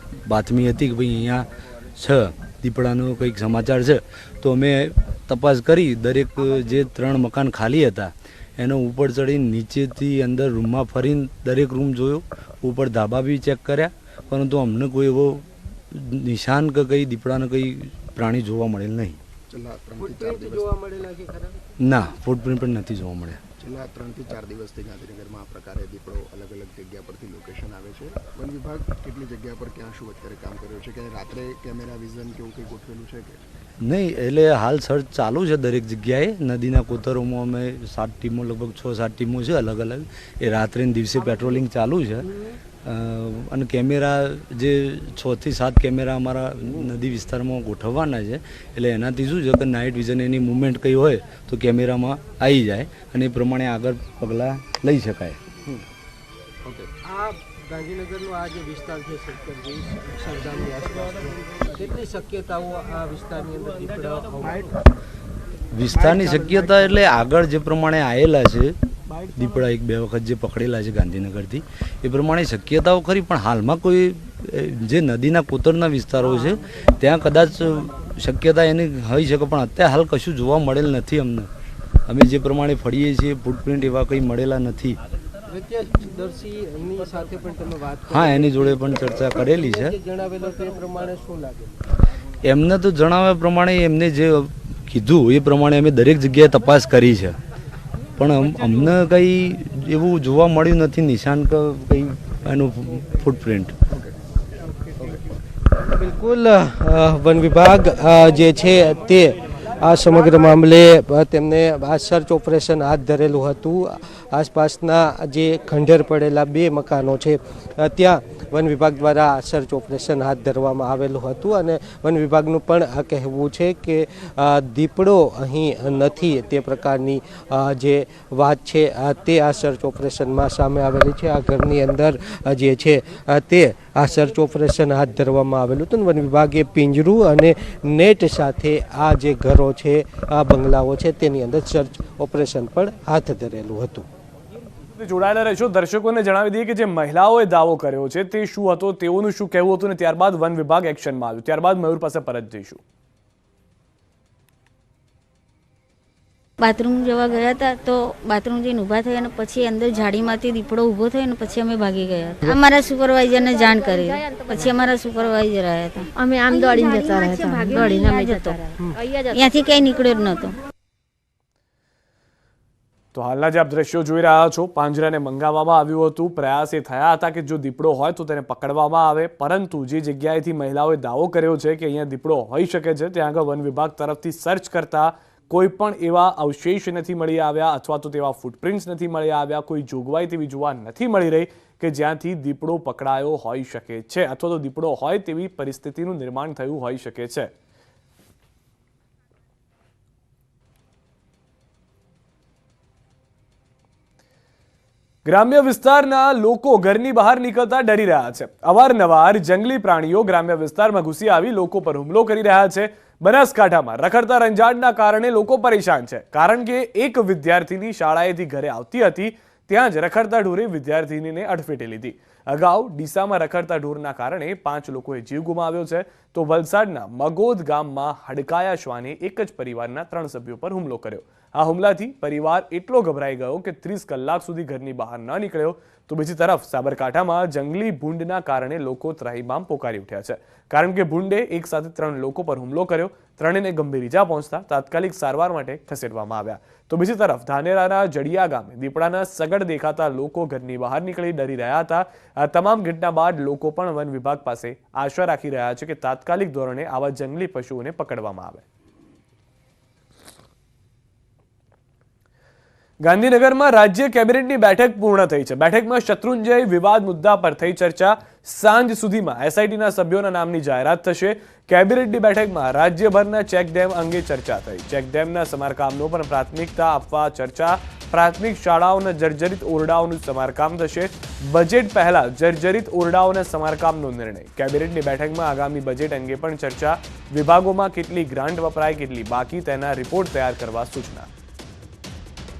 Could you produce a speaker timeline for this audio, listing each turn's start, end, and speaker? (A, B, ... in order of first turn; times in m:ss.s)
0:00.2-0:19.2 A
0:19.5-0:20.7 B
0:20.0-0:21.6 C
0:21.8-0:23.4 A
0:23.6-0:33.4 B
0:33.8-0:42.3 A
0:42.8-0:55.4 A
0:56.6-0:56.9 B
0:57.0-1:04.7 C
1:05.7-1:08.7 A
1:06.1-1:06.5 B
1:06.1-1:06.7 C
1:09.3-1:21.5 A
1:16.2-1:16.5 C
1:22.1-1:25.0 A
1:25.5-1:31.8 C
1:28.1-1:29.9 A
1:32.4-1:37.4 A
1:38.2-1:43.7 A
1:45.8-2:24.1 C
2:25.0-2:32.8 D
2:36.6-2:48.6 E
2:46.1-2:49.4 F
2:49.3-2:50.6 E
2:53.1-3:17.5 D
3:25.2-4:18.6 D
4:23.0-4:51.3 D